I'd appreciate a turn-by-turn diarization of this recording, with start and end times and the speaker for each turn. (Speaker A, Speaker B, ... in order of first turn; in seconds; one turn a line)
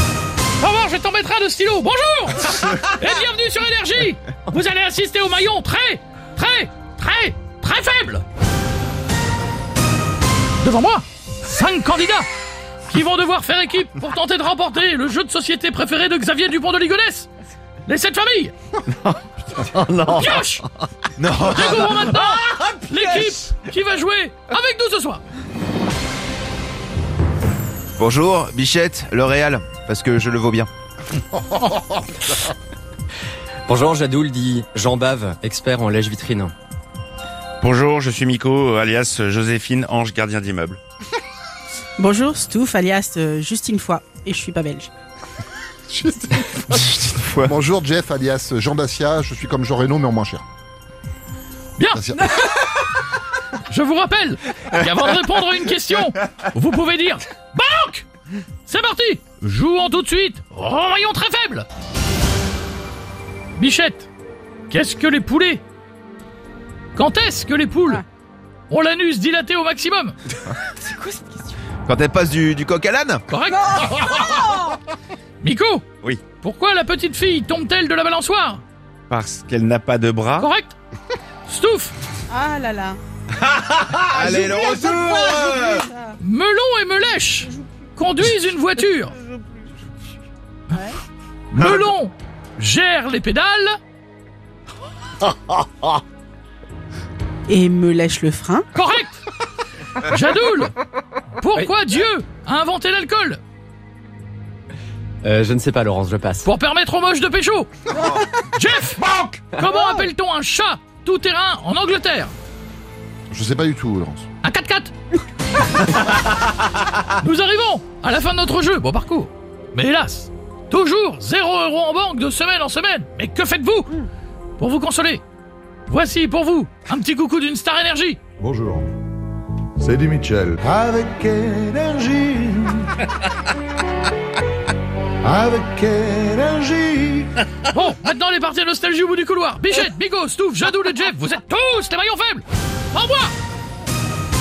Speaker A: 0.6-8.2
Speaker A: 10.6-12.3
Speaker A: 12.9-17.3
Speaker A: 17.9-18.5
Speaker B: 18.9-20.4
Speaker A: 20.0-20.6
Speaker C: 21.2-22.0
Speaker A: 21.3-25.2
Speaker C: 28.0-30.7
Speaker B: 33.7-36.5
Speaker D: 37.6-40.8
Speaker E: 42.0-44.9
Speaker F: 45.9-50.4
Speaker D: 46.7-47.5
Speaker A: 51.8-52.6
Speaker F: 51.9-52.4
Speaker A: 53.7-58.1
Speaker A: 58.6-61.6
Speaker A: 63.5-64.1
Speaker A: 64.7-65.6
Speaker A: 66.9-68.0
Speaker A: 68.7-70.2
Speaker E: 70.8-71.3
Speaker C: 71.9-73.2
Speaker A: 73.3-74.5
Speaker E: 74.4-74.7
Speaker A: 75.4-75.8
Speaker A: 76.4-78.6
Speaker D: 79.1-80.5
Speaker A: 80.4-80.7
Speaker A: 81.5-81.9
Speaker E: 82.3-83.0
Speaker C: 83.4-85.8
Speaker E: 84.1-86.1
Speaker A: 86.2-89.2
Speaker E: 89.3-89.6
Speaker A: 91.5-93.8
Speaker E: 97.5-98.7
Speaker A: 98.7-99.2
Speaker A: 100.0-100.7
Speaker A: 101.4-103.4
Speaker B: 105.2-106.5
Speaker A: 106.4-107.7
Speaker A: 108.4-112.3
Speaker F: 113.3-114.3
Speaker A: 114.4-114.9
Speaker A: 117.2-124.0
Speaker A: 124.6-125.2
Speaker A: 125.9-128.2
Speaker G: 128.4-128.9
Speaker G: 129.8-132.9
Speaker G: 135.2-137.3
Speaker A: 137.7-143.3